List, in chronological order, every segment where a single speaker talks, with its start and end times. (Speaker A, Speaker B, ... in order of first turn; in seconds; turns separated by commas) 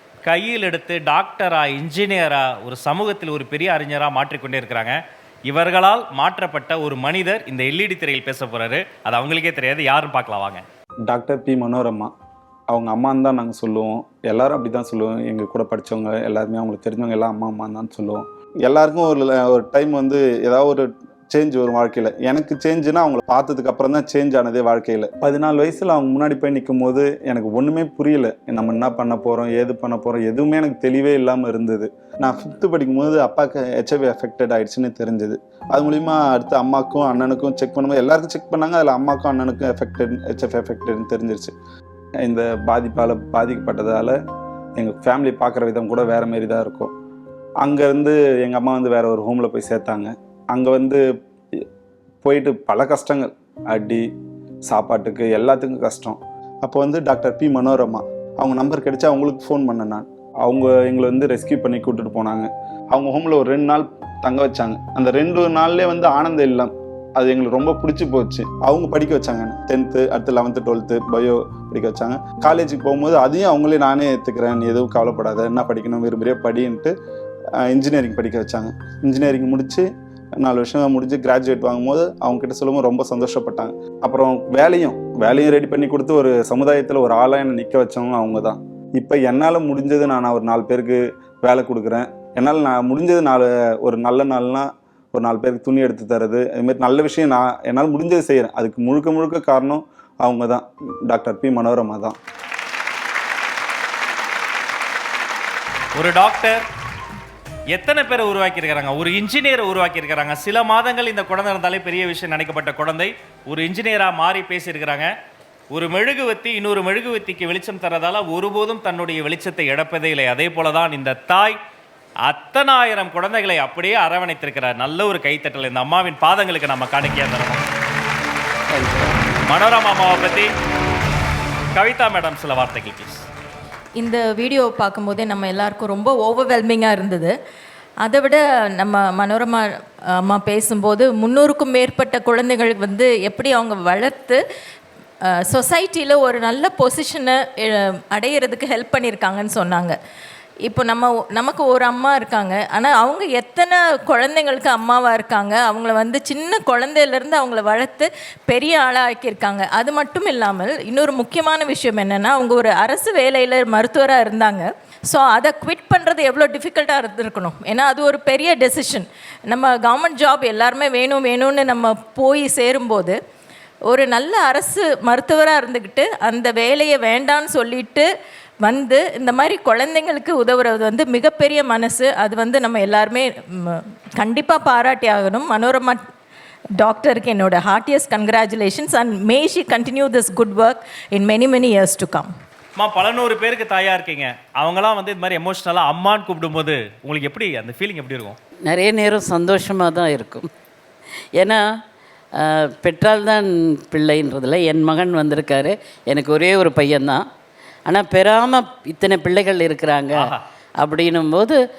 Speaker A: 0.2-10.6, Speaker B: 11.1-12.1, Speaker B: 12.7-41.5, Speaker B: 42.2-44.1, Speaker B: 44.8-46.9, Speaker B: 47.6-51.0, Speaker B: 52.2-54.0, Speaker B: 54.7-76.9, Speaker B: 77.6-79.8, Speaker B: 80.4-102.2, Speaker A: 106.0-106.6, Speaker A: 107.7-115.1, Speaker A: 115.7-121.5, Speaker A: 122.3-127.6, Speaker C: 128.7-129.1, Speaker A: 129.4-130.5, Speaker A: 131.7-133.2, Speaker D: 134.0-137.3, Speaker D: 138.0-139.6, Speaker D: 140.2-144.4, Speaker D: 145.4-150.0, Speaker D: 150.7-173.2, Speaker D: 173.9-178.1, Speaker D: 178.6-186.0, Speaker D: 186.8-192.3, Speaker A: 192.8-198.4, Speaker C: 198.7-200.5, Speaker C: 201.4-201.6, Speaker C: 202.4-207.2, Speaker C: 207.9-211.6, Speaker A: 210.2-210.4